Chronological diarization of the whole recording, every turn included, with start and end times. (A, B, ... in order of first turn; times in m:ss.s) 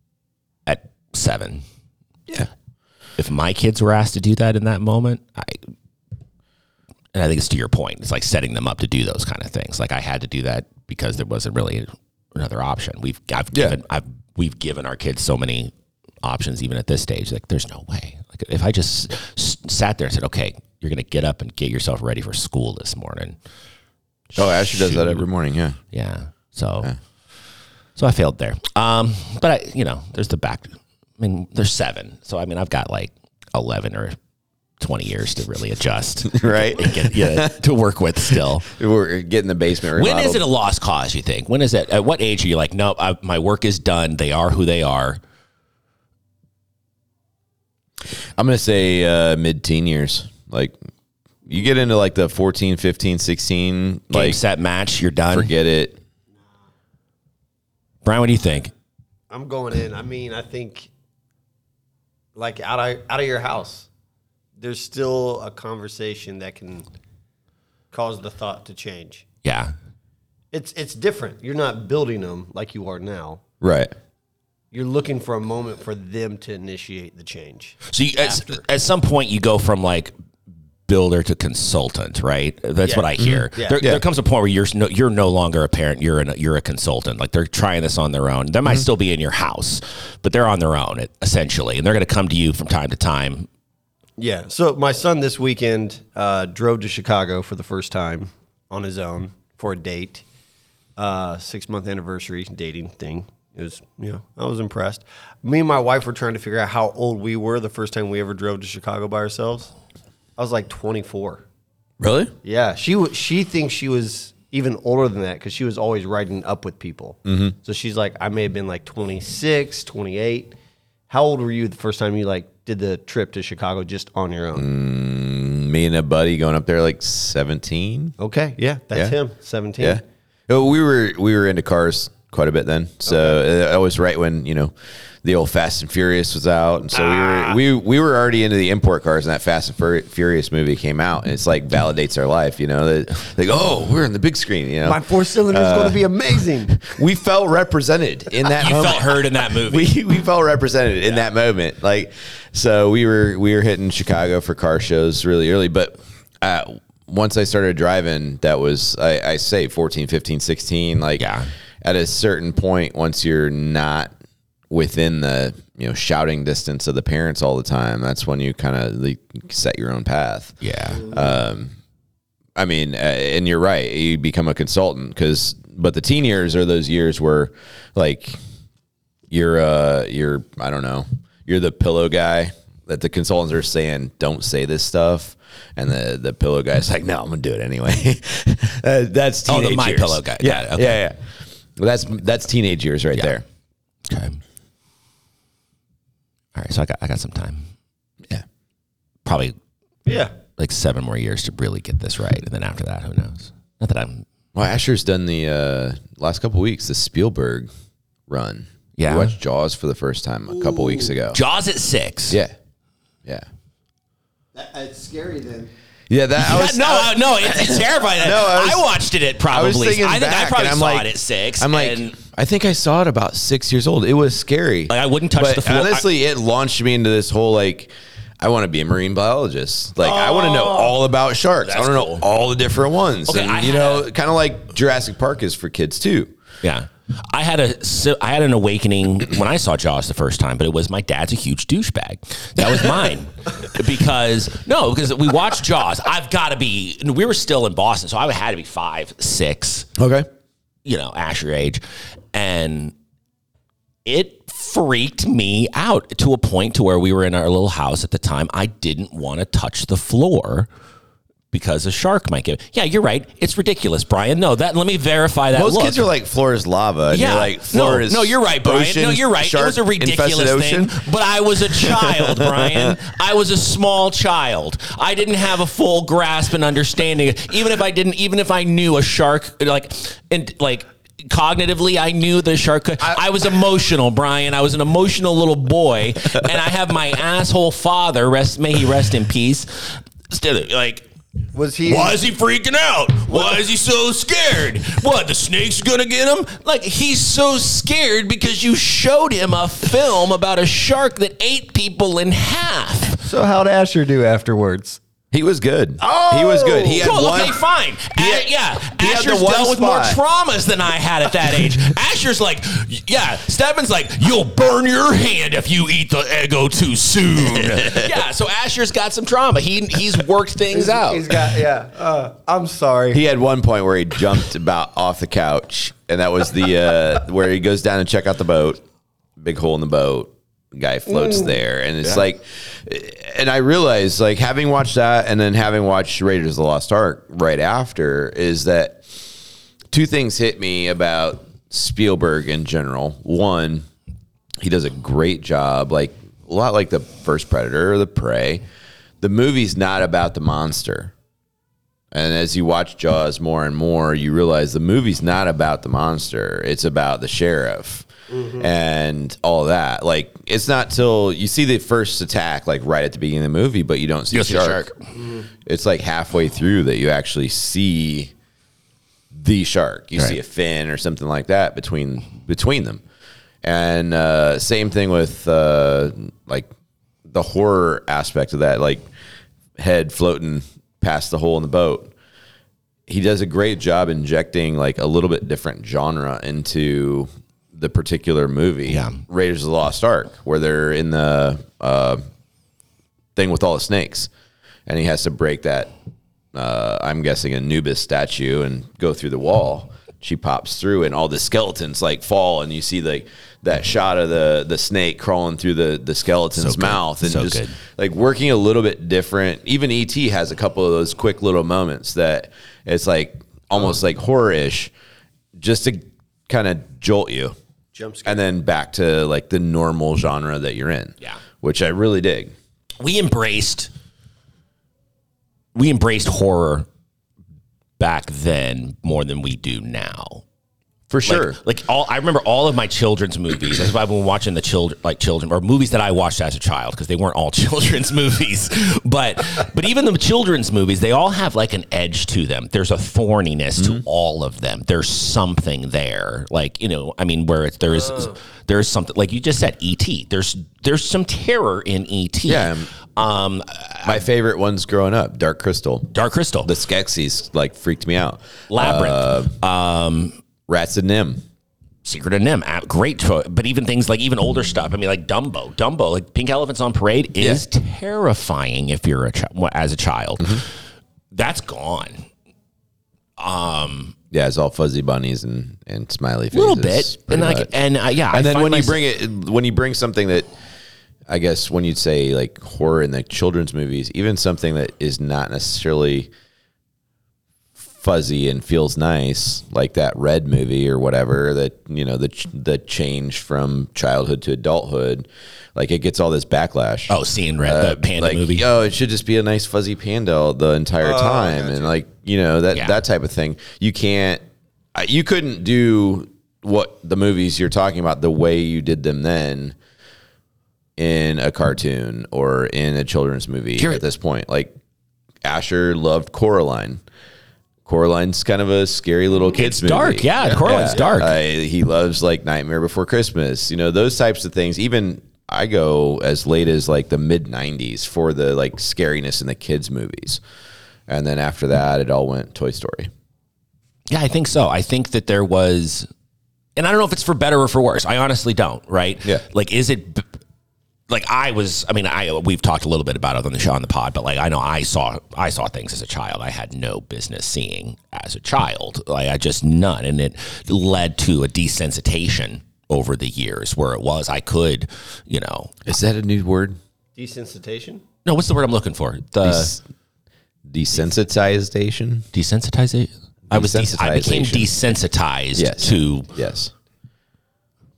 0:00.6-0:01.6 A
0:03.2-0:05.6 A
0:07.1-0:23.4 A
0:13.5-0:13.8 B
0:24.3-0:25.2 A
0:24.3-0:25.8 B
0:25.9-0:26.9 A
0:28.0-0:34.2 A
0:34.8-0:38.7 A
0:36.3-0:37.6 B
0:38.3-0:40.4 B
0:39.9-0:45.2 A
0:48.4-0:50.8 B
0:51.4-0:54.4 B
0:54.1-0:55.5 A
0:55.3-0:56.0 B
0:58.0-0:58.7 A
0:59.3-1:00.9 C
1:02.3-1:03.9 C
1:04.6-1:06.8 C
1:07.9-1:09.2 C
1:09.4-1:09.7 A
1:10.5-1:13.4 C
1:13.6-1:13.9 B
1:14.7-1:18.6 C
1:17.9-1:20.1 A
1:20.9-1:33.5 A
1:22.8-1:23.8 C
1:23.2-1:24.0 B
1:34.2-1:40.2 C
1:41.0-1:49.7 C
1:50.4-1:51.4 C
1:52.0-1:52.3 B
1:52.4-2:00.5 C
1:57.2-1:57.5 B
2:01.1-2:04.7 C
2:04.5-2:08.1 B
2:08.2-2:10.0 C
2:09.8-2:26.1 B
2:13.1-2:13.4 C
2:17.0-2:17.6 C
2:24.8-2:26.9 C
2:26.7-2:41.2 B
2:28.4-2:29.9 A
2:41.2-2:41.5 A
2:41.8-2:44.1 B
2:44.7-2:51.7 B
2:50.6-2:51.0 A
2:52.6-2:58.4 B
2:59.3-3:11.2 B
3:09.4-3:11.0 A
3:11.8-3:13.4 B
3:14.1-3:14.4 A
3:16.5-3:17.7 A
3:19.2-3:19.6 A
3:20.0-3:20.3 C
3:20.6-3:24.2 A
3:24.5-3:27.7 B
3:28.3-3:31.4 B
3:29.0-3:29.3 A
3:30.6-3:31.1 C
3:31.3-3:32.4 A
3:34.5-3:35.7 C
3:36.1-3:56.3 B
3:36.4-3:42.2 A
3:44.9-3:46.1 A
3:50.0-3:50.9 C
3:51.6-3:52.2 A
3:53.3-3:54.1 A
3:56.6-4:09.9 A
4:10.0-4:10.3 B
4:10.8-4:11.8 A
4:12.3-4:12.9 A
4:14.0-4:20.7 A
4:21.5-4:26.1 A
4:25.5-4:31.0 B
4:27.1-4:51.0 A
4:31.6-4:33.0 B
4:51.5-4:52.2 C
4:51.8-5:03.2 A
4:53.3-4:53.6 C
5:03.2-5:05.0 C
5:05.3-5:07.6 B
5:06.0-5:07.1 C
5:07.0-5:21.4 A
5:08.1-5:10.2 B
5:17.3-5:18.2 B
5:20.7-5:23.2 C
5:23.1-5:28.8 B
5:29.4-5:39.0 B
5:31.1-5:31.5 C
5:39.9-5:43.8 B
5:44.6-5:48.6 B
5:49.2-5:51.1 B
5:52.1-6:04.9 B
5:58.3-5:58.6 C
6:04.3-6:04.9 A
6:05.2-6:05.4 C
6:05.6-6:08.3 B
6:09.3-6:13.0 B
6:13.6-6:16.7 B
6:17.3-6:19.0 B
6:19.8-6:22.1 B
6:23.1-6:32.2 B
6:28.9-6:29.2 A
6:33.4-6:34.3 B
6:34.9-6:35.9 B
6:36.5-6:54.9 B
6:46.6-6:47.8 A
6:55.6-6:57.5 B
6:57.9-6:58.4 C
6:58.2-7:02.5 B
7:03.0-7:03.9 A
7:05.7-7:06.9 A
7:08.0-7:10.4 A
7:11.1-7:11.6 B
7:11.2-7:34.2 A
7:23.8-7:24.0 B
7:32.5-7:32.9 B
7:34.0-7:36.1 B
7:36.1-7:36.7 A
7:36.6-7:39.5 B
7:38.7-7:40.4 A
7:40.7-7:41.4 B
7:42.0-7:50.7 A
7:47.4-7:47.6 B
7:51.3-7:52.2 A
7:53.4-7:54.1 A
7:54.3-7:57.7 B
7:56.5-7:59.0 A
7:58.3-8:00.5 B
8:01.3-8:06.3 B
8:07.8-8:24.4 B
8:17.1-8:18.6 A
8:21.0-8:21.9 C
8:24.9-8:29.8 B
8:31.0-8:34.7 B
8:33.8-8:34.0 A
8:35.4-8:37.0 B
8:37.8-8:50.4 B
8:39.5-8:41.4 A
8:51.1-8:53.1 B
8:54.1-8:56.1 A
8:56.8-9:00.3 A
9:01.1-9:15.8 A
9:15.8-9:16.8 B
9:17.2-9:18.0 C
9:18.2-9:19.7 A
9:19.4-9:19.8 B
9:20.7-9:22.2 B
9:22.3-9:26.3 A
9:23.5-9:24.8 B
9:25.6-9:26.7 B